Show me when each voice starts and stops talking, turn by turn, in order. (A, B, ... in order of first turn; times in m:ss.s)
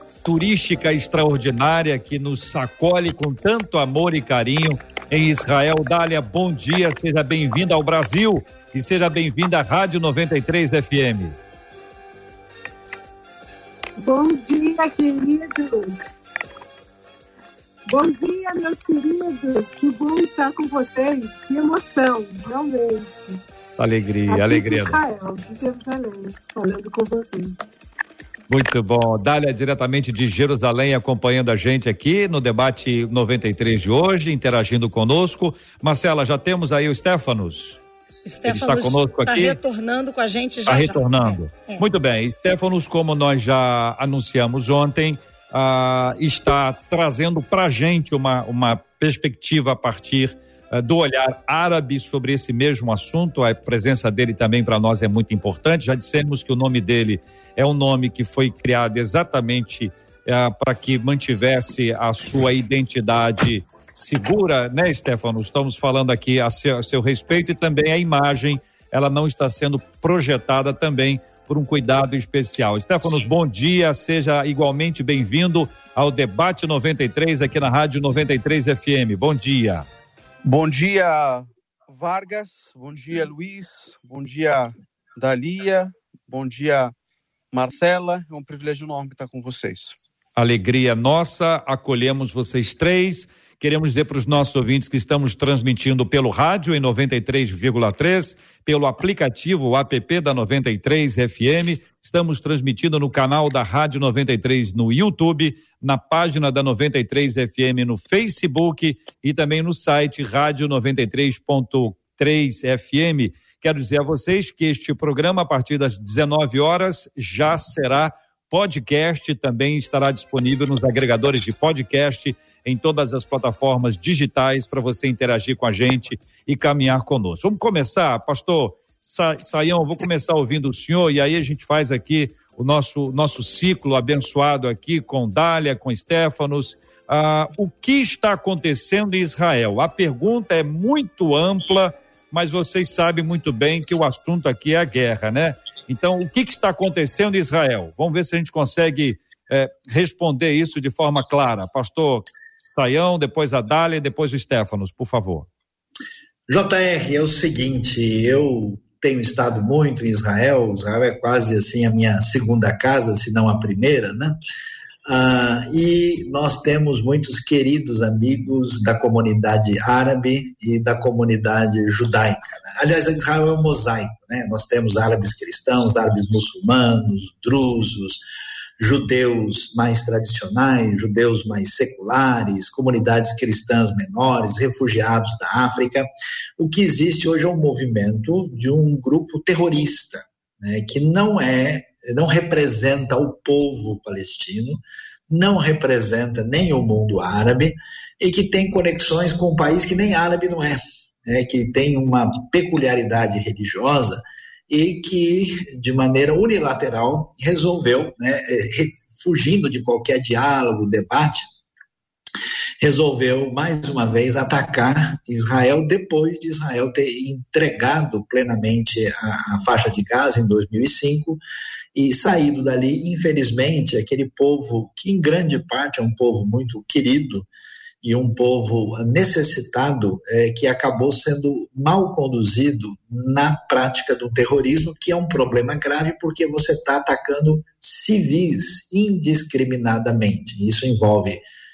0:00.2-0:11.4 A
0:14.0-0:16.1 B
0:17.9-0:23.4 B
0:23.8-0:25.0 A
0:24.3-0:27.6 B
0:28.5-0:37.8 A
0:38.2-0:41.8 C
0:38.5-0:39.6 A
0:40.7-1:19.9 A
1:20.4-1:26.9 D
1:27.5-1:30.0 D
1:30.4-2:35.5 A
2:36.5-2:44.4 E
2:45.1-2:58.2 E
2:58.8-3:31.5 E
3:32.8-3:41.4 E
3:41.9-3:47.5 E
3:48.0-4:01.4 E